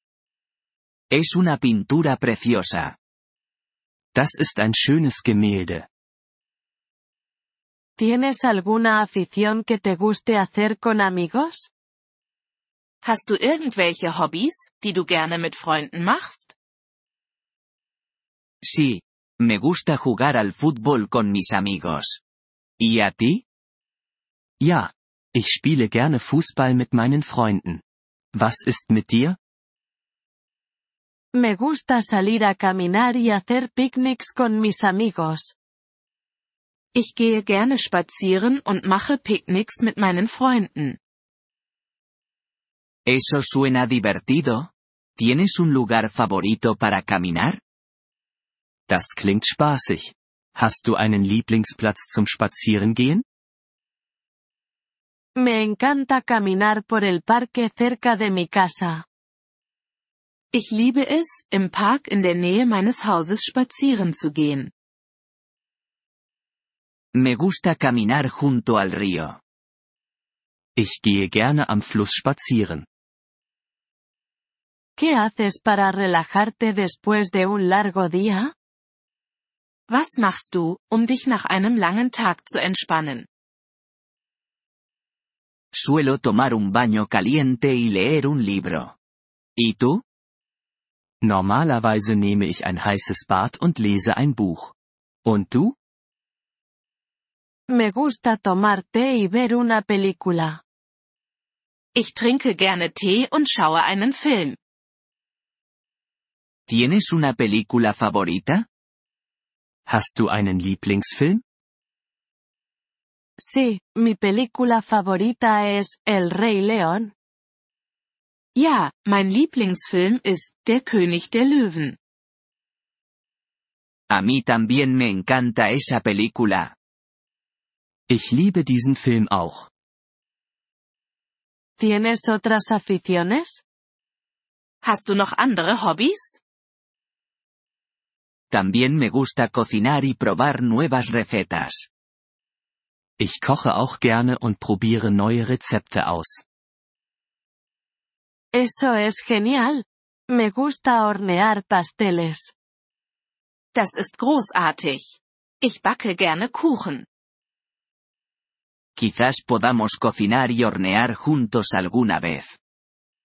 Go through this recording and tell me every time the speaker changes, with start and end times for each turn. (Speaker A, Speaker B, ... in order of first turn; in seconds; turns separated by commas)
Speaker A: 1.1-2.9, Speaker B: 4.1-5.8, Speaker C: 8.0-11.7, Speaker D: 13.0-16.5, Speaker A: 18.6-22.2, Speaker A: 22.8-23.4, Speaker B: 24.6-27.8, Speaker B: 28.3-29.4, Speaker C: 31.3-35.5, Speaker D: 36.9-41.0, Speaker A: 43.0-47.6, Speaker B: 48.9-53.2, Speaker C: 55.4-59.0, Speaker D: 60.5-64.7, Speaker A: 67.1-69.4, Speaker B: 70.8-72.8, Speaker C: 75.0-78.5, Speaker D: 79.9-83.3, Speaker A: 85.7-89.0, Speaker A: 89.6-90.0, Speaker B: 91.2-94.7, Speaker B: 95.2-95.8, Speaker C: 97.7-100.6, Speaker D: 101.9-104.6, Speaker A: 106.7-108.6, Speaker B: 109.9-111.4, Speaker C: 113.4-117.1, Speaker D: 118.5-122.0, Speaker A: 124.1-126.7, Speaker B: 128.1-129.7, Speaker C: 131.8-133.6, Speaker D: 134.8-136.4, Speaker A: 138.5-141.9, Speaker B: 143.2-146.4, Speaker C: 148.5-152.5, Speaker D: 153.7-157.1, Speaker A: 158.9-162.6